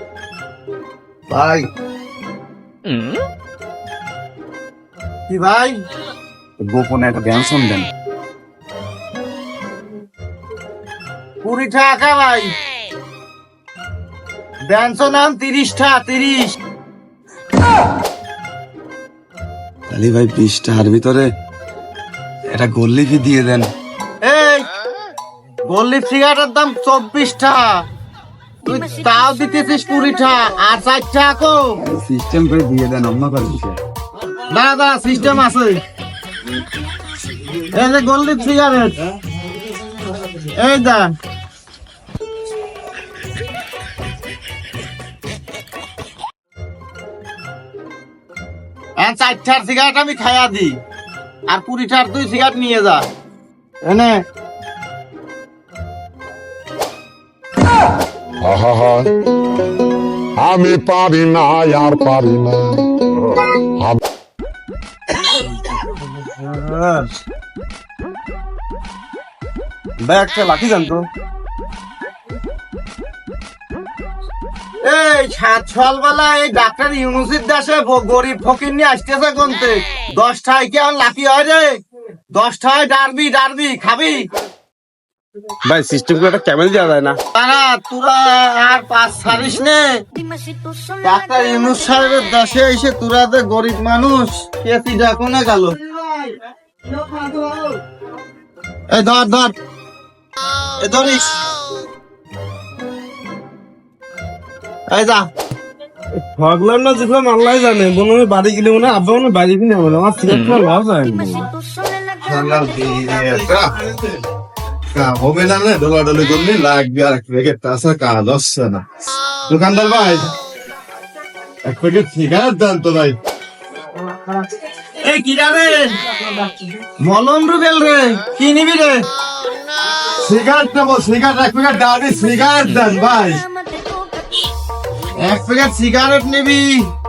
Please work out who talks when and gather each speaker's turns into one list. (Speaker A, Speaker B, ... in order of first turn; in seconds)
Speaker A: 1.3-1.6, 6.6-7.9, 19.9-21.3, 22.5-23.7, 31.8-33.8
Speaker B: 5.3-5.8, 11.4-12.5, 14.6-16.6, 24.2-24.7, 25.7-27.8, 28.6-31.8, 34.5-35.8, 37.7-39.0, 40.5-41.1, 49.0-50.8, 51.5-53.1, 53.8-54.2, 74.8-81.8, 82.3-84.3, 87.3-90.0, 91.0-96.3, 96.9-97.8, 98.9-99.5, 100.8-101.4, 104.9-105.3, 125.0-126.0, 127.0-129.1, 135.2-136.8
Speaker C: 58.4-59.1, 60.4-64.0
Speaker D: 66.2-67.1, 70.0-71.1, 85.6-87.2, 106.2-111.5
Speaker E: 112.2-114.0, 114.9-118.8, 119.5-120.3, 121.6-123.2, 130.2-133.4